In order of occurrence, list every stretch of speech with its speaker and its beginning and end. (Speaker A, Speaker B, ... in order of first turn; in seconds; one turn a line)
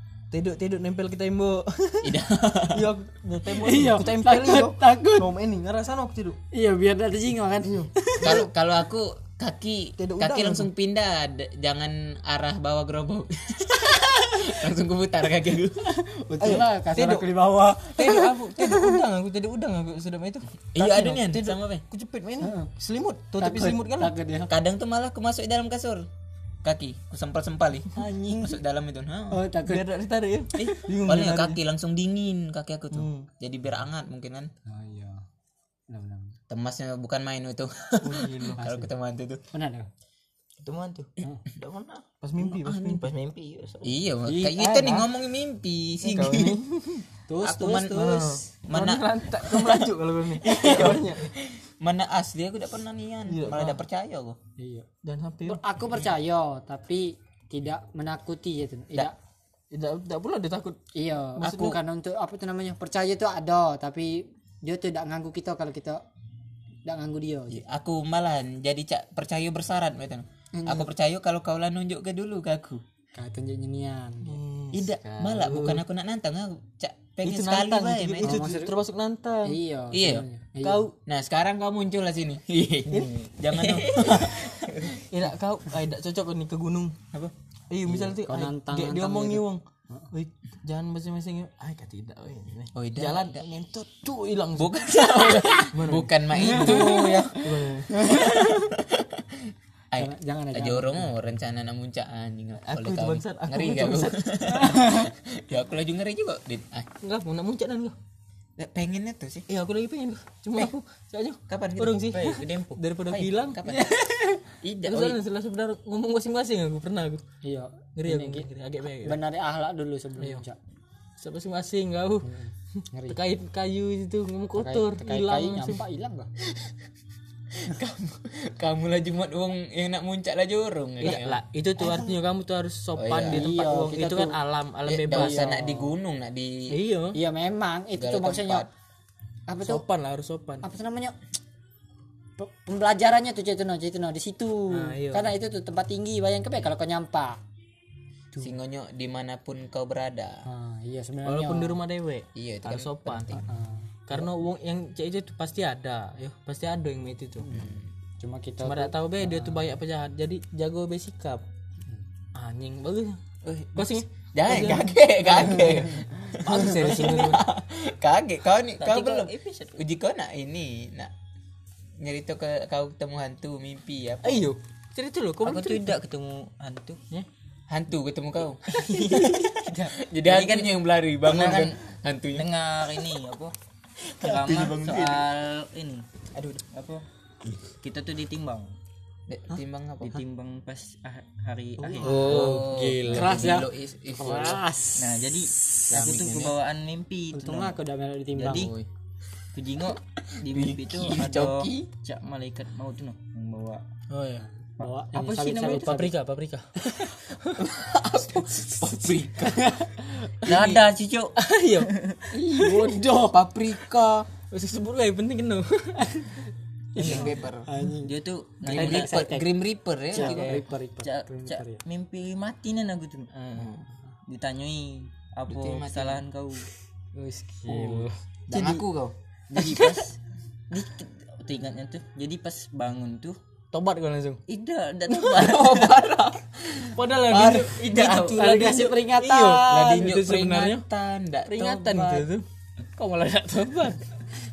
Speaker A: 0.3-2.2
Speaker B: 2.0-2.9
Speaker A: 2.7-6.4
Speaker C: 3.6-5.3
Speaker C: 6.5-8.4
Speaker A: 7.6-8.4
Speaker B: 8.2-15.9
Speaker A: 10.0-10.7
Speaker C: 16.0-18.9
Speaker A: 16.4-24.1
Speaker B: 20.7-21.8
Speaker C: 22.4-22.7
Speaker C: 23.4-24.5
Speaker B: 24.5-26.1
Speaker B: 26.6-29.4
Speaker A: 28.0-28.3
Speaker C: 28.0-28.5
Speaker C: 29.3-29.8
Speaker A: 29.6-31.6
Speaker B: 30.6-34.5
Speaker A: 32.9-33.3
Speaker C: 34.6-35.2
Speaker C: 35.9-36.4
Speaker B: 36.5-39.4
Speaker A: 38.0-38.6
Speaker C: 38.6-38.9
Speaker C: 39.5-39.9
Speaker D: 40.6-42.0
Speaker A: 42.2-43.1
Speaker D: 42.6-43.9
Speaker B: 43.8-46.6
Speaker C: 44.2-45.1
Speaker A: 46.0-47.0
Speaker C: 47.3-48.0
Speaker B: 47.4-49.9
Speaker A: 47.8-51.3
Speaker B: 50.4-54.4
Speaker A: 53.3-53.8
Speaker C: 54.6-54.9
Speaker A: 55.0-55.6
Speaker C: 55.5-59.1
Speaker A: 59.7-60.8
Speaker C: 60.9-66.0
Speaker A: 61.4-61.8
Speaker B: 61.4-61.7
Speaker C: 66.8-67.6
Speaker B: 67.5-72.8
Speaker C: 70.5-70.9
Speaker C: 73.1-74.4
Speaker A: 74.2-75.8
Speaker B: 74.7-78.5
Speaker A: 77.2-79.6
Speaker C: 78.2-78.7
Speaker C: 79.4-80.9
Speaker B: 79.9-80.2
Speaker A: 80.6-80.9
Speaker B: 81.0-85.0
Speaker A: 82.9-83.3
Speaker A: 85.0-87.0
Speaker A: 87.7-89.6
Speaker C: 87.9-90.1
Speaker A: 90.1-97.9
Speaker B: 92.7-93.4
Speaker B: 94.6-97.3
Speaker C: 96.4-97.3
Speaker C: 97.9-98.6
Speaker B: 98.4-106.9
Speaker C: 99.9-101.1
Speaker A: 102.6-104.3
Speaker A: 107.0-107.9
Speaker B: 108.6-109.4
Speaker A: 109.5-117.2
Speaker B: 111.5-112.2
Speaker D: 112.1-112.8
Speaker B: 113.0-113.9
Speaker B: 114.6-115.2
Speaker C: 117.4-118.5
Speaker A: 118.0-119.2
Speaker C: 119.0-120.5
Speaker A: 121.2-122.3
Speaker C: 122.2-123.2
Speaker A: 123.1-125.8
Speaker C: 124.6-126.3
Speaker B: 127.6-131.4
Speaker A: 131.0-135.5
Speaker D: 131.0-131.3
Speaker B: 132.9-133.4
Speaker C: 133.2-134.3
Speaker B: 134.8-136.8
Speaker C: 135.1-135.9
Speaker A: 136.7-137.2
Speaker C: 137.1-138.7
Speaker B: 138.0-138.7
Speaker C: 139.5-139.8
Speaker A: 139.6-140.6
Speaker C: 140.6-141.1
Speaker C: 142.4-147.4
Speaker A: 144.7-145.3
Speaker B: 148.4-150.4
Speaker C: 150.4-151.8
Speaker A: 151.2-153.4
Speaker B: 152.3-153.4
Speaker C: 153.4-154.2
Speaker A: 154.1-157.5
Speaker C: 157.4-159.7
Speaker B: 157.5-157.8
Speaker A: 158.6-161.4
Speaker A: 162.3-163.2
Speaker B: 163.4-171.1
Speaker A: 163.7-167.4
Speaker D: 168.8-169.8
Speaker B: 172.0-174.4
Speaker A: 174.2-175.9
Speaker D: 175.4-177.0
Speaker B: 177.7-182.5
Speaker D: 178.7-181.8
Speaker A: 178.9-179.2
Speaker D: 182.3-183.5
Speaker D: 184.2-186.1
Speaker B: 184.2-185.3
Speaker B: 186.3-186.6
Speaker D: 186.7-187.0
Speaker D: 187.8-188.8
Speaker B: 189.3-190.2
Speaker D: 190.0-192.6
Speaker C: 191.8-195.2
Speaker A: 192.0-193.5
Speaker B: 192.0-194.6
Speaker D: 194.9-197.8
Speaker B: 195.9-196.6
Speaker C: 197.3-198.7
Speaker D: 198.3-198.7
Speaker B: 198.5-198.9
Speaker D: 199.5-203.8
Speaker B: 200.4-201.9
Speaker A: 204.1-204.5
Speaker C: 204.8-206.1
Speaker D: 204.8-205.9
Speaker A: 205.3-207.6
Speaker B: 207.6-209.7
Speaker C: 209.4-210.1
Speaker B: 210.4-210.8
Speaker D: 210.4-212.2
Speaker A: 211.3-213.1
Speaker C: 212.3-213.3
Speaker B: 213.1-214.3
Speaker A: 214.5-216.4
Speaker C: 216.9-219.5
Speaker B: 216.9-217.7
Speaker A: 217.0-217.3
Speaker D: 218.0-219.2
Speaker B: 218.6-220.6
Speaker C: 220.1-221.8
Speaker A: 220.1-220.6
Speaker D: 220.4-223.3
Speaker A: 223.3-223.7
Speaker B: 223.5-223.9
Speaker D: 224.2-226.7
Speaker B: 225.5-226.2
Speaker A: 227.1-228.1
Speaker D: 227.7-228.8
Speaker B: 228.5-229.1
Speaker D: 229.5-230.2
Speaker D: 230.7-233.4
Speaker A: 233.7-234.4
Speaker D: 234.5-235.9
Speaker B: 235.3-238.4
Speaker A: 236.9-240.8
Speaker D: 237.6-238.4
Speaker C: 238.4-240.1
Speaker B: 239.7-242.2
Speaker A: 241.4-244.1